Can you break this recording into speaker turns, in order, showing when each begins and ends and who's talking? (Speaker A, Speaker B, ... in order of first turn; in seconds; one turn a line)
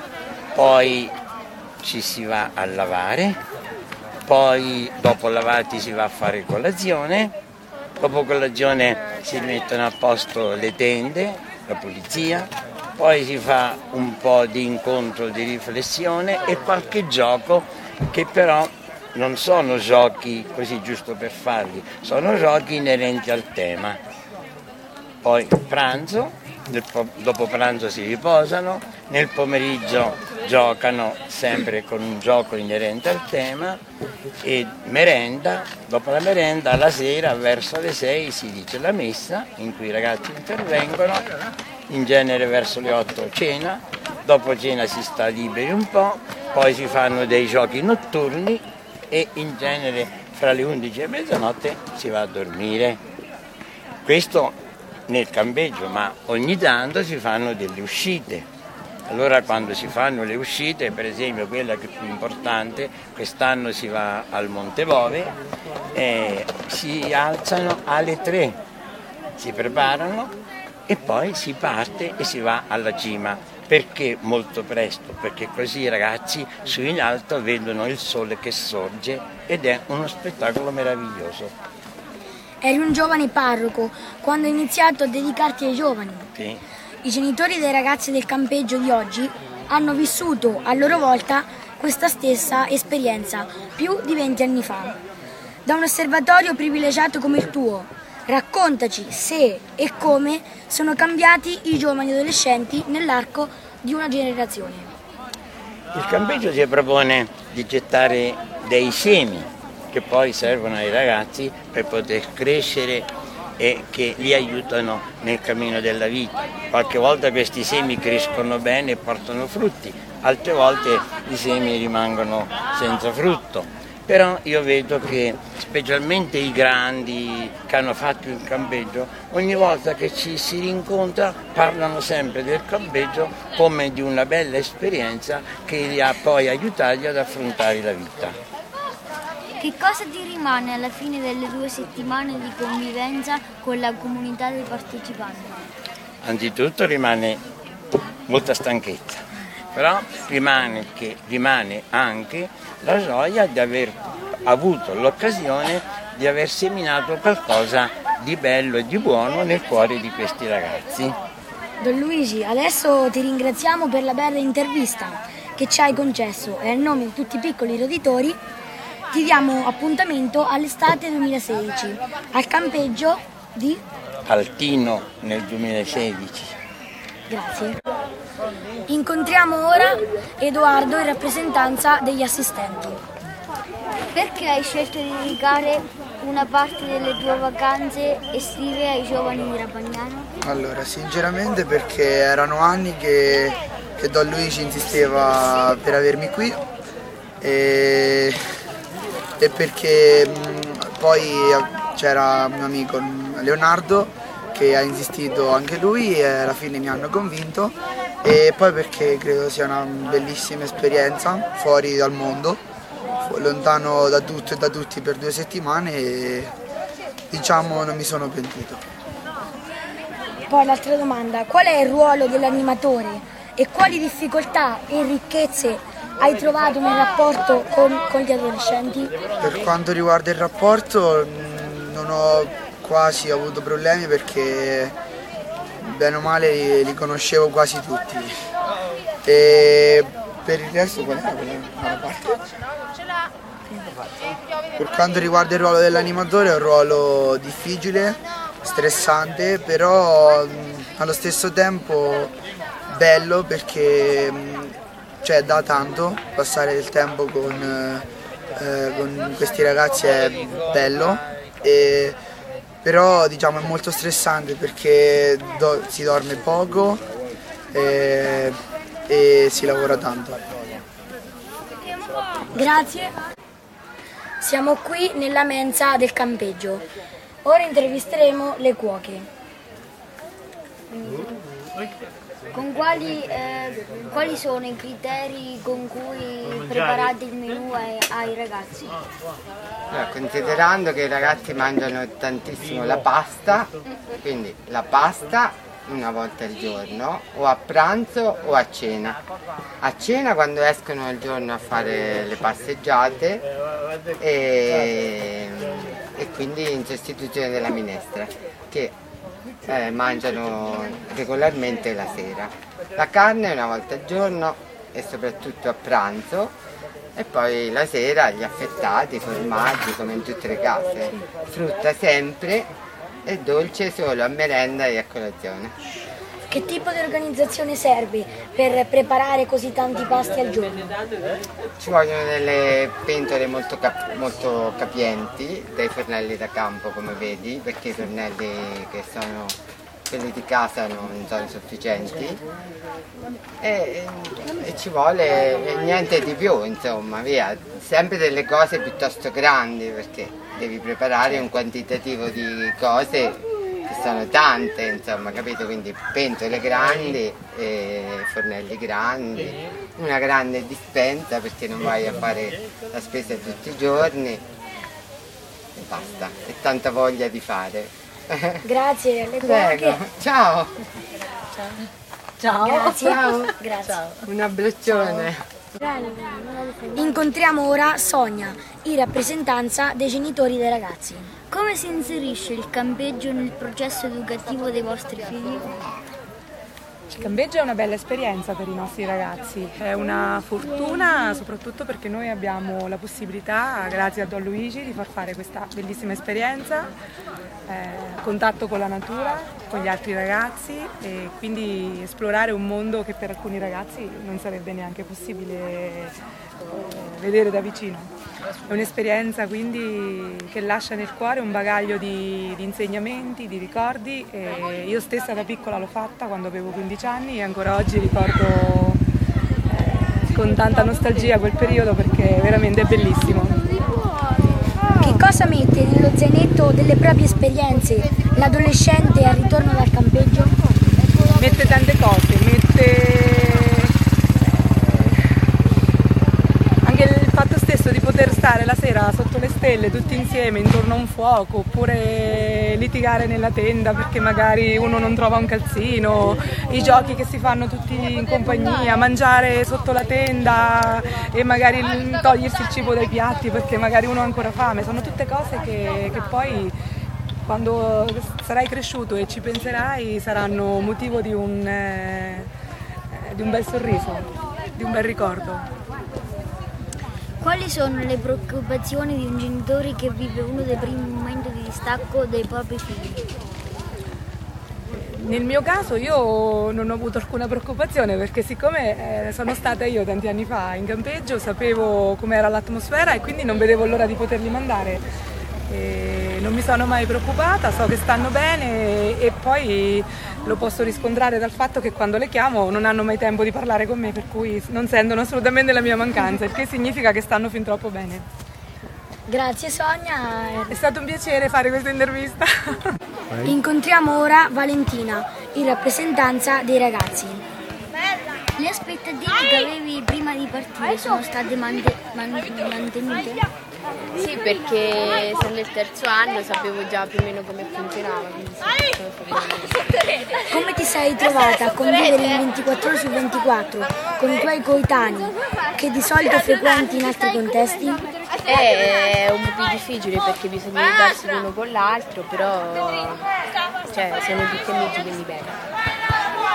Speaker A: 0.6-1.1
Speaker A: 1.8-3.4
Speaker A: 4.3-7.3
Speaker A: 8.0-24.0
Speaker A: 25.2-33.8
Speaker A: 34.4-41.3
Speaker A: 41.9-53.0
Speaker A: 54.0-54.5
Speaker A: 55.1-58.5
Speaker A: 59.1-65.4
Speaker A: 65.9-68.6
Speaker A: 69.4-70.3
Speaker A: 70.9-81.5
Speaker B: 82.6-86.3
Speaker A: 86.3-86.6
Speaker B: 87.0-95.0
Speaker B: 95.7-104.9
Speaker A: 105.9-138.4
Speaker C: 139.6-145.6
Speaker A: 146.2-147.4
Speaker A: 148.3-149.2
Speaker A: 149.7-161.2
Speaker B: 161.8-168.4
Speaker B: 169.1-173.8
Speaker A: 174.3-176.6
Speaker B: 177.3-177.8
Speaker B: 178.9-183.0
Speaker C: 184.1-190.3
Speaker D: 190.4-196.6
Speaker D: 197.4-198.4
Speaker D: 199.4-212.6
Speaker D: 213.2-216.5
Speaker D: 217.3-218.8
Speaker B: 220.5-229.1
Speaker D: 229.4-234.9
Speaker D: 235.8-238.3
Speaker D: 239.2-242.4
Speaker D: 244.8-252.3
Speaker D: 252.9-258.1
Speaker D: 258.6-262.2
Speaker D: 262.8-267.0
Speaker D: 267.7-268.6
Speaker D: 269.1-270.4
Speaker B: 272.5-273.1
Speaker B: 274.4-276.9
Speaker B: 277.4-279.3
Speaker C: 280.9-281.4
Speaker C: 282.5-289.0
Speaker E: 289.9-299.2
Speaker E: 299.8-303.5
Speaker E: 304.2-308.9
Speaker E: 309.7-316.6
Speaker E: 317.2-322.7
Speaker E: 323.3-325.8
Speaker B: 326.5-330.9
Speaker E: 331.8-339.6
Speaker E: 340.1-342.4
Speaker E: 343.6-364.4
Speaker E: 365.8-368.6
Speaker B: 368.6-370.0
Speaker E: 369.4-370.7
Speaker E: 372.5-375.4
Speaker B: 372.6-374.0
Speaker B: 375.8-381.3
Speaker C: 381.5-385.8
Speaker F: 387.1-396.9
Speaker F: 397.7-408.1
Speaker F: 408.7-419.0
Speaker F: 419.7-423.6
Speaker B: 425.0-430.6
Speaker F: 431.4-435.4
Speaker F: 436.8-456.7
Speaker F: 457.5-462.5
Speaker F: 463.1-465.7
Speaker C: 467.4-473.3
Speaker F: 474.9-485.0
Speaker F: 485.7-498.2
Speaker B: 499.3-500.8
Speaker F: 500.7-503.0
Speaker B: 503.4-507.4
Speaker C: 508.6-513.5
Speaker G: 514.1-520.0
Speaker B: 520.5-528.0
Speaker G: 528.5-533.3
Speaker G: 533.9-535.6